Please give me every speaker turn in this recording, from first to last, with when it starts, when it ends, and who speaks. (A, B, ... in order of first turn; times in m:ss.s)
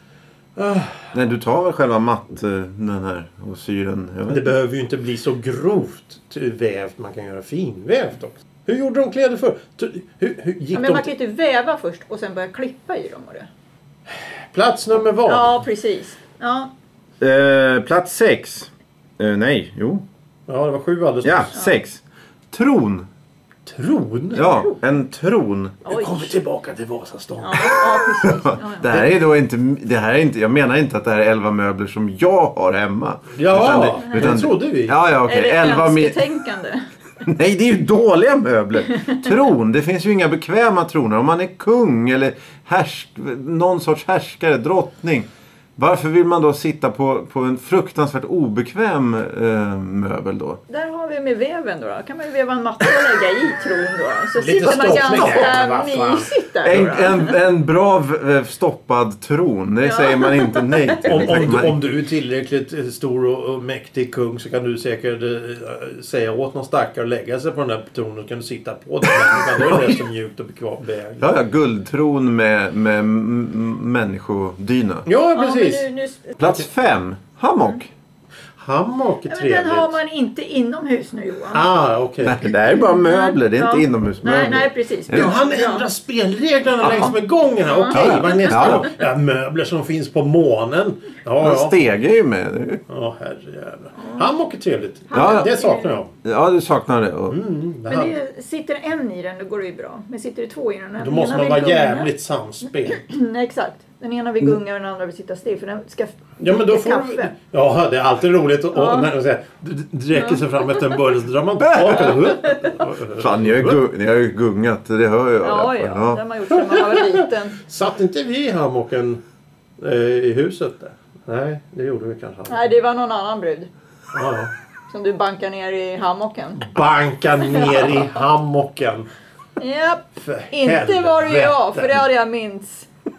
0:00.6-0:01.1 A
0:01.1-0:04.5 B
0:04.3-0:11.1 A
0:10.7-0:13.5 C
0:14.5-0:15.6 A
0:15.2-0:16.7 C
0:17.2-0:20.0 B
0:20.5-0:21.5 A
0:21.2-0:22.0 B
0:21.5-0:21.8 C
0:22.5-0:23.1 B
0:23.6-0:24.5 A
0:24.3-0:25.8 B
0:24.4-0:24.8 C
0:25.8-0:26.3 C
0:25.9-0:28.1 A
0:27.4-0:29.0 C
0:28.3-0:36.2 B
0:33.3-0:35.0 A
0:35.2-0:36.8 C
0:37.2-0:50.6 B
0:38.9-0:39.3 C
0:50.7-0:57.4 C
0:54.4-0:56.3 A
0:56.6-1:01.8 B
0:59.8-1:01.4 C
1:01.0-1:11.3 A
1:09.5-1:10.0 B
1:11.2-1:15.0 B
1:15.0-1:15.9 A
1:15.3-1:16.4 C
1:16.4-1:17.9 B
1:18.6-1:20.0 A
1:19.3-1:21.7 C
1:21.5-1:22.5 A
1:22.2-1:25.3 B
1:22.5-1:25.9 C
1:25.1-1:31.8 A
1:26.8-1:27.1 B
1:26.8-1:28.9 C
1:27.9-1:28.9 B
1:31.4-1:32.8 B
1:32.9-1:36.1 A
1:34.0-1:34.3 C
1:35.1-1:36.0 C
1:35.1-1:35.5 B
1:36.2-1:37.4 B
1:37.3-1:38.2 A
1:37.9-1:42.1 C
1:41.0-1:43.1 A
1:42.8-1:47.3 C
1:46.4-1:53.8 A
1:48.7-1:49.1 C
1:50.1-1:50.7 C
1:51.6-1:52.2 B
1:51.9-1:52.8 C
1:53.2-1:56.2 B
1:55.4-1:57.6 C
1:56.5-1:59.2 A
1:59.8-2:02.6 A
2:02.5-2:03.7 C
2:04.1-2:04.5 A
2:04.9-2:06.7 C
2:06.6-2:09.1 A
2:07.6-2:07.9 C
2:09.6-2:12.9 C
2:10.2-2:12.0 A